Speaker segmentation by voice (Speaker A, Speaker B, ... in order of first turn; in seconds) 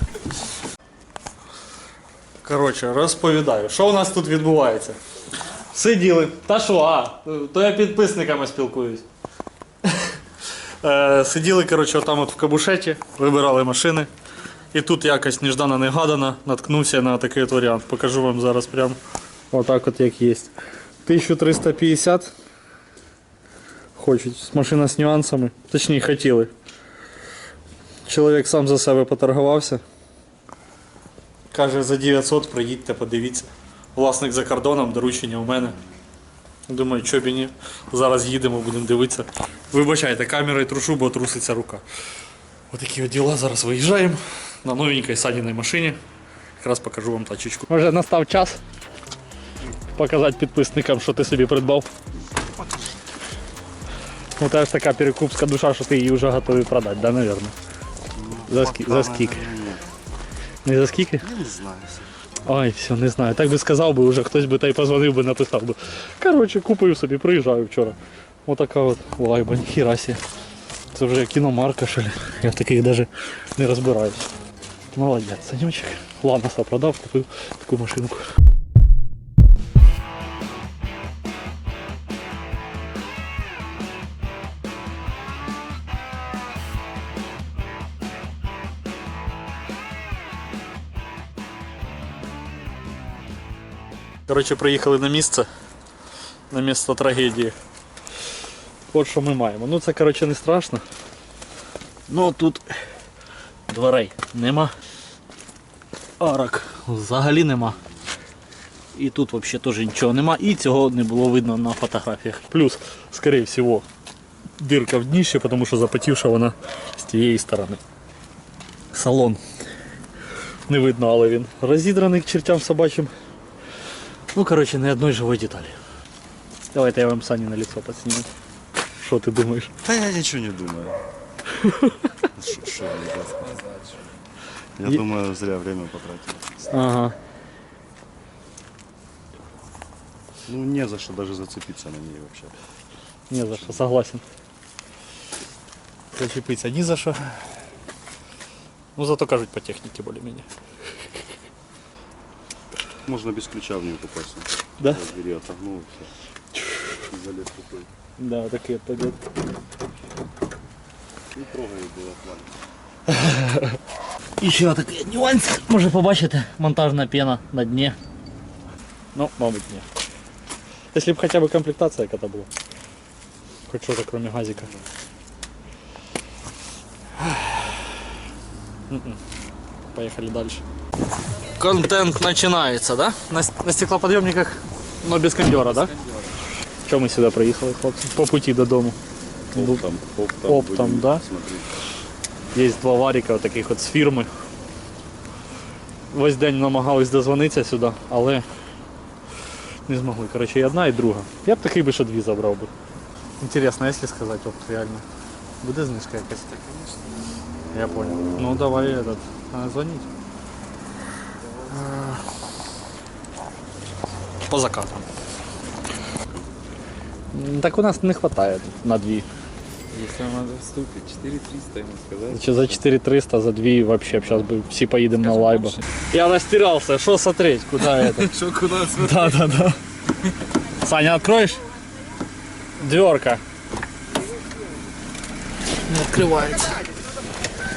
Speaker A: 2.4-5.0, 5.7-9.0, 9.8-10.1, 10.8-14.1, 14.7-19.0, 19.5-20.5, 21.1-22.3, 24.0-26.5, 28.1-29.8, 31.5-35.8, 36.7-41.8, 42.7-46.0, 46.6-48.6, 50.0-51.9, 54.4-57.5, 58.5-59.4, 60.6-61.2, 62.5-70.2, 70.9-74.3, 74.9-78.3, 94.3-95.5, 96.5-97.5, 98.9-100.8, 102.1-102.7, 103.7-104.7, 106.2-107.8, 109.0-113.9, 114.6-117.8, 118.9-119.4, 120.7-123.1, 124.3-125.8, 126.7-128.3, 129.0-129.7, 131.6-131.9, 136.7-137.2, 143.3-144.2, 146.1-147.4, 149.0-150.5, 158.2-159.2, 163.1-163.8, 164.4-168.0, 169.1-169.9, 170.9-172.5, 173.7-174.7, 177.2-177.9, 178.9-179.2, 179.9-180.6, 181.6-185.9, 186.9-189.0, 189.5-189.8, 190.5-191.2, 192.5-194.3, 196.1-198.4, 199.9-202.7, 203.4-205.0, 205.6-206.5, 207.7-210.1, 211.7-212.2, 214.5-215.1, 217.3-219.3, 222.3-228.3, 229.0-229.8, 230.8-231.6, 232.8-233.4, 235.9-236.8
Speaker B: 52.3-53.0, 58.1-59.8, 61.2-62.1, 129.8-131.0, 132.3-133.6, 134.8-136.5, 140.5-142.5, 143.6-143.9, 153.1-156.1, 157.1-157.9, 161.3-162.5, 189.5-191.7
Speaker C: 133.5-133.8, 185.4-186.3, 206.5-207.3, 211.4-211.9, 219.9-222.8, 225.2-225.9, 227.8-229.5